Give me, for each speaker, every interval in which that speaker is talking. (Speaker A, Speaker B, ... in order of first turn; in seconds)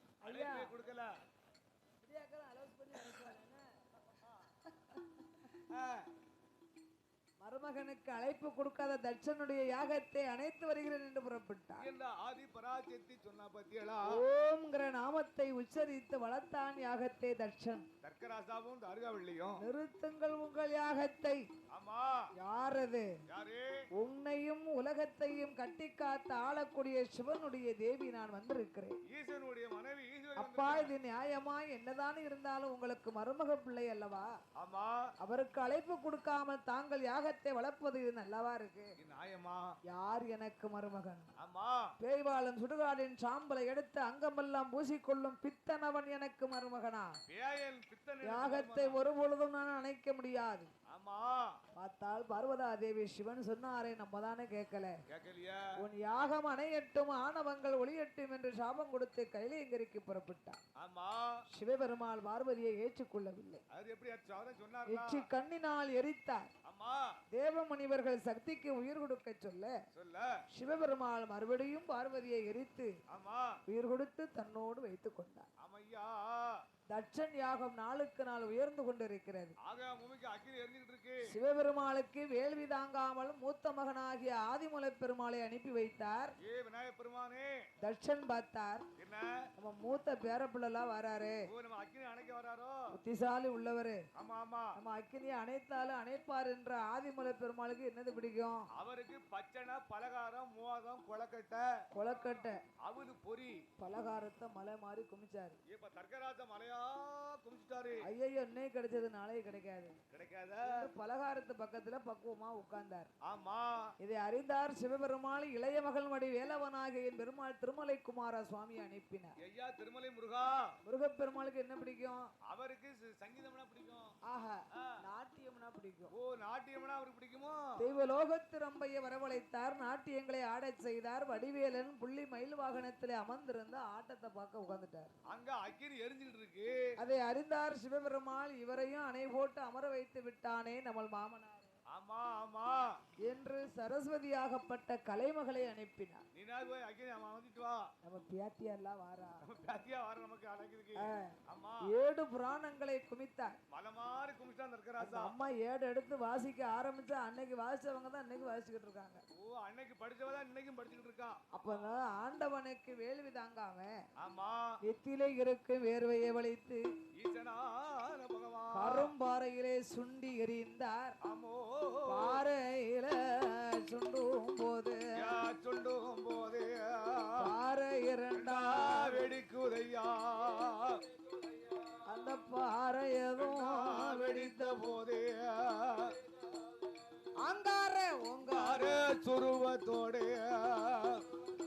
Speaker A: 0.2-0.7, 2.0-3.6, 7.4-11.9, 14.1-17.9, 19.6-21.4, 22.4-23.1, 24.0-29.0, 30.4-34.3, 35.2-38.9, 39.9-41.3, 42.0-47.1, 48.2-50.7, 51.8-55.0, 55.8-60.6, 61.5-63.6, 64.9-66.5, 67.3-69.7, 70.5-72.9, 73.7-75.5, 76.9-79.5, 81.3-86.3, 87.8-88.9, 89.6-91.4, 92.9-94.0, 94.8-98.6, 101.9-102.6, 103.8-105.6, 108.0-110.0, 110.7-113.1, 114.0-119.3, 120.8-122.3, 124.3-126.1, 127.8-135.1, 137.0-141.7, 143.2-146.2, 148.0-149.4, 151.0-151.3, 151.9-153.6, 155.0-159.2, 161.5-163.9, 164.8-166.8, 168.7-171.2, 172.1-175.0, 177.4-179.3, 182.1-184.9, 187.4-189.1
Speaker B: 0.2-1.1, 5.7-6.1, 11.8-14.2, 18.0-19.6, 21.7-22.2, 23.3-23.8, 29.1-30.9, 34.6-35.1, 39.0-39.8, 41.4-41.9, 47.3-49.0, 50.9-51.6, 55.1-55.7, 60.8-61.3, 63.7-65.3, 66.7-67.1, 69.9-70.4, 73.1-73.6, 75.6-76.6, 79.6-81.2, 86.4-87.6, 89.0-89.4, 91.5-92.8, 94.2-94.7, 98.8-101.7, 102.8-103.7, 105.7-108.0, 110.1-110.9, 113.2-113.9, 119.4-120.7, 122.5-124.1, 126.1-127.8, 135.3-136.7, 141.9-143.0, 146.3-147.9, 149.4-151.8, 153.7-155.3, 159.3-161.4, 164.2-164.8, 167.2-169.1, 171.2-172.4, 175.2-177.5, 178.3-181.0, 183.4-186.2, 188.4-191.2